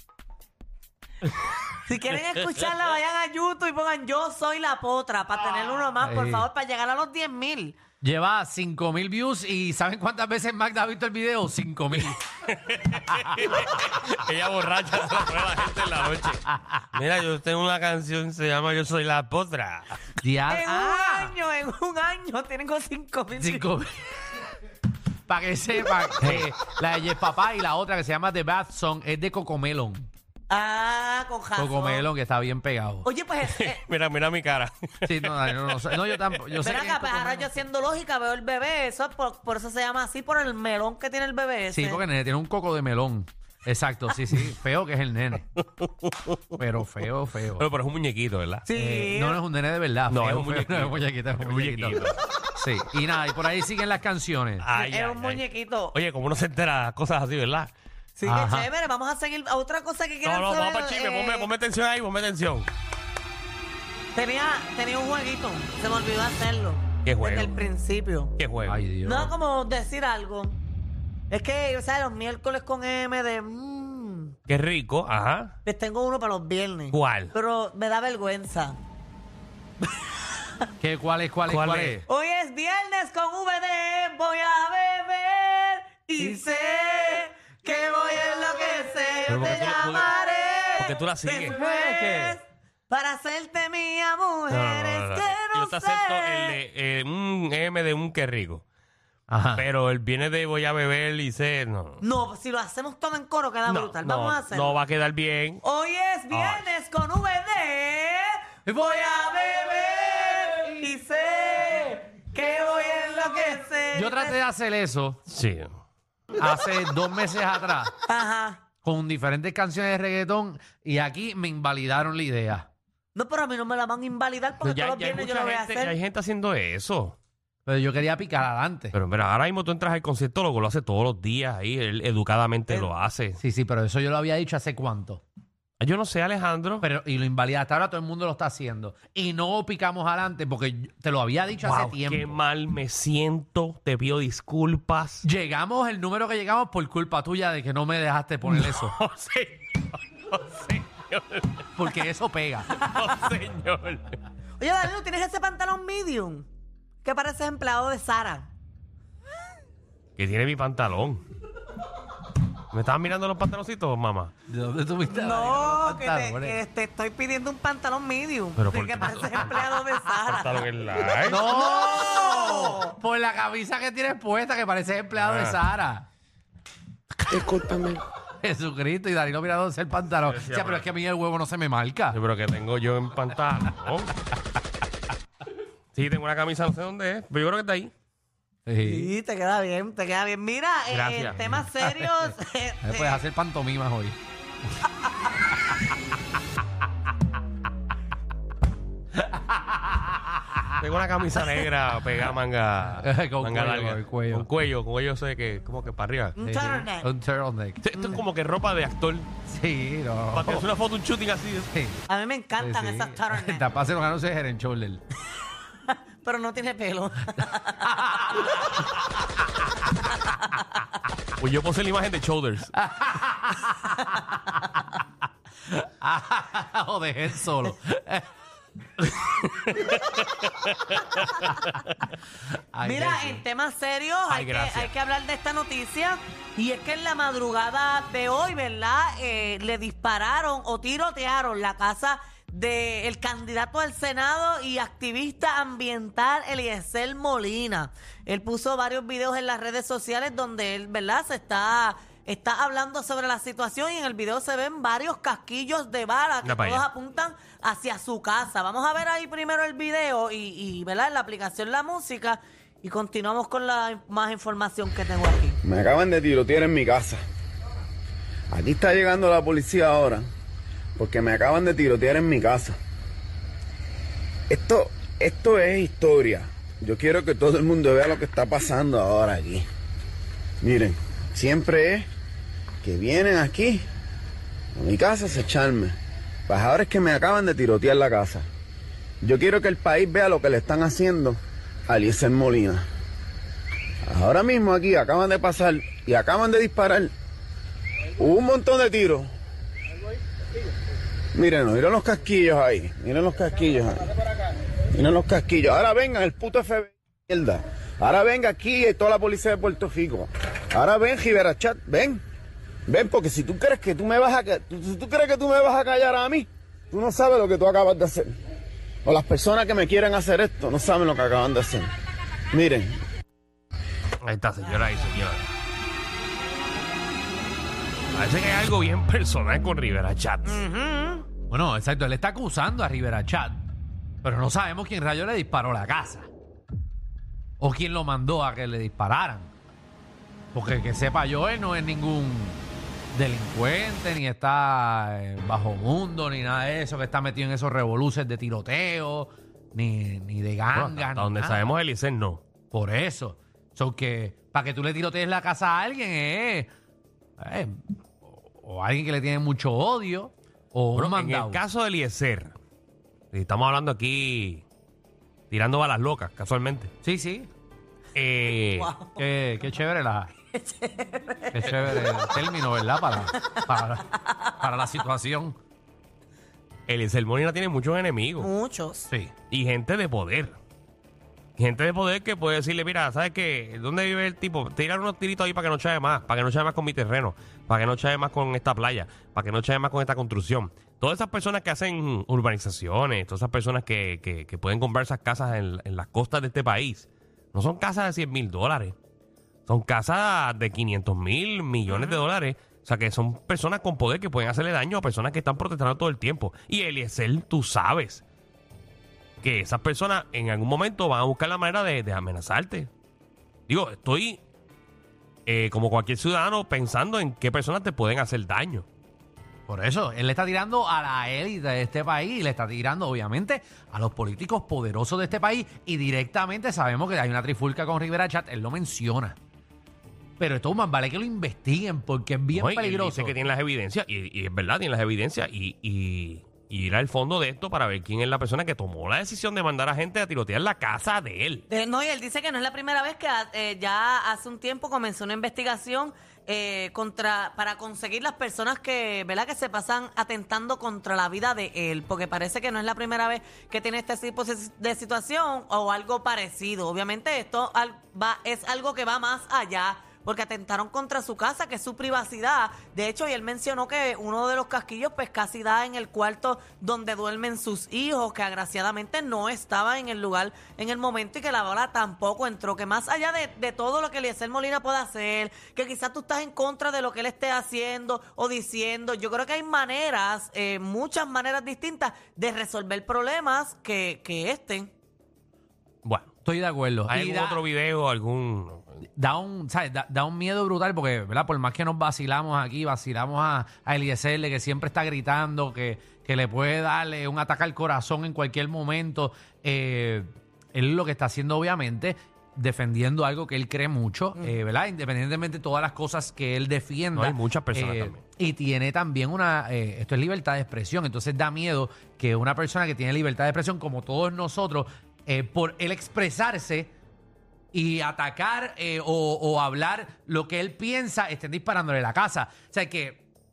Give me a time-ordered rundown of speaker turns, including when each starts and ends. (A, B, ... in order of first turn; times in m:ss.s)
0:01.8-0:07.8 A
0:06.0-0:06.5 B
0:08.0-0:12.2 B
0:12.0-0:20.0 C
0:16.5-0:16.8 B
0:20.2-0:21.3 B
0:20.5-0:23.7 A
0:23.4-0:24.0 B
0:25.3-0:30.0 B
0:26.2-0:26.5 C
0:30.5-0:32.1 A
0:31.6-0:33.1 B
0:33.0-0:33.8 A
0:33.4-0:36.7 C
0:35.1-0:37.6 B
0:36.6-0:42.0 A
0:41.7-0:45.4 B
0:45.6-0:46.6 C
0:46.6-0:47.7 B
0:47.6-0:48.7 C
0:48.7-0:49.4 A
0:48.7-0:54.7 B
0:50.1-0:52.2 C
0:54.6-0:57.7 C
0:54.7-0:56.0 A
0:58.2-1:01.5 A
0:58.2-0:58.7 B
1:00.2-1:02.7 C
1:04.1-1:08.3 A
1:07.0-1:07.6 C
1:08.4-1:08.8 C
1:08.6-1:09.3 B
1:09.0-1:10.6 A
1:11.3-1:14.3 A
1:14.5-1:15.6 C
1:15.6-1:18.8 A
1:16.9-1:17.3 C
1:20.0-1:20.5 A
1:20.8-1:22.0 B
1:21.5-1:22.0 C
1:22.0-1:36.6 A
1:29.3-1:30.1 C
1:30.8-1:31.6 C
1:31.6-1:32.4 B
1:34.5-1:38.6 C
1:39.3-1:39.7 B
1:39.6-1:42.0 C
1:42.0-1:44.8 A
1:43.7-1:45.6 C
1:45.6-1:54.4 A
1:46.3-1:46.7 C
1:48.7-1:49.0 B
1:54.0-1:55.2 B
1:55.3-1:55.7 C
1:56.4-1:57.9 B
1:58.0-1:58.6 A
1:58.8-2:02.7 B
2:03.2-2:06.0 A
2:04.6-2:07.2 C
2:07.7-2:08.9 B
2:08.9-2:13.4 C
2:13.4-2:15.2 B
2:15.8-2:16.8 C
2:16.8-2:22.4 B
2:21.6-2:25.2 C
2:25.2-2:28.9 B
2:28.4-2:31.7 C
2:31.8-2:32.7 B
2:32.8-2:34.2 C
2:34.6-2:36.5 A
2:37.0-2:38.5 A
2:40.2-2:41.2 C
2:42.7-2:44.3 C
2:44.5-2:46.6 B
2:45.1-2:50.6 A
2:48.6-2:51.4 C
2:51.2-2:53.0 A
2:51.3-2:56.1 B
2:55.2-2:55.6 C
2:57.3-2:57.7 B
2:58.4-3:02.2 B
3:00.3-3:00.9 C
3:02.1-3:04.2 C
3:05.9-3:07.9 C
3:08.7-3:09.1 B
3:08.8-3:13.2 A
3:10.9-3:11.4 C
3:11.6-3:12.3 B
3:12.8-3:14.2 B
3:19.2-3:20.6 B
3:20.8-3:26.4 C
3:22.8-3:24.5 B
3:26.4-3:27.1 A
3:26.4-3:27.8 B
3:27.8-3:29.3 C
3:29.5-3:30.7 B
3:30.3-3:31.7 C
3:31.7-3:32.0 B
3:32.1-3:33.6 A
3:32.6-3:35.0 B
3:35.9-3:38.8 A
3:37.8-3:38.4 B
3:40.1-3:40.6 A
3:41.4-3:42.7 C
3:42.7-3:44.4 B
3:44.0-3:44.5 A
3:45.7-3:48.3 B
3:49.3-3:52.0 C
3:52.7-3:53.4 B
3:52.8-4:25.6 A
3:54.3-3:54.9 C
4:16.4-4:16.9 C
4:25.6-4:27.2 D
4:28.5-4:30.3 D
4:31.0-4:32.8 D
4:34.5-4:39.7 D
4:40.6-4:42.1 D
4:42.8-4:43.8 D
4:44.8-4:46.0 D
4:46.5-4:48.5 D
4:49.2-4:52.8 D
4:54.1-4:57.1 D
4:58.2-4:59.3 D
5:01.4-5:04.1 D
5:04.9-5:12.2 D
5:12.9-5:18.3 D
5:19.0-5:21.9 D
5:22.5-5:23.0 D
5:24.2-5:25.5 C
5:28.1-5:30.6 C
5:30.4-5:31.3 A
5:31.5-5:33.7 B
5:34.2-5:36.3 B
5:37.6-5:39.5 B
5:40.5-5:42.6 B
5:43.1-5:51.7 B
5:50.7-5:52.4 C
5:52.7-5:56.7 B
5:57.4-6:01.6 B
6:01.0-6:02.5 C
6:03.3-6:04.6 C
6:05.5-6:06.9 C
6:07.0-6:07.5 B
6:08.2-6:08.9 C
6:08.7-6:09.3 A
6:09.2-6:10.3 B
6:10.5-6:12.4 A
6:11.5-6:14.1 B
6:13.5-6:13.7 A
6:14.2-6:14.5 A
6:14.6-6:15.6 B
6:16.9-6:18.5 C
6:18.4-6:19.1 A
6:19.5-6:20.6 C
6:21.6-6:39.0 C
6:39.7-6:48.2 C
6:41.9-6:42.2 A
6:49.4-6:52.9 C
6:53.7-6:54.4 C
6:55.5-6:58.9 C
6:59.7-7:09.4 B
7:10.4-7:13.4 B
7:12.5-7:21.6 C
7:21.7-8:04.9 A
8:06.0-8:06.3 C
8:06.4-8:07.6 B
8:07.1-8:09.0 C
8:09.2-8:36.9 B
8:27.2-8:28.2 C
8:37.7-8:43.2 B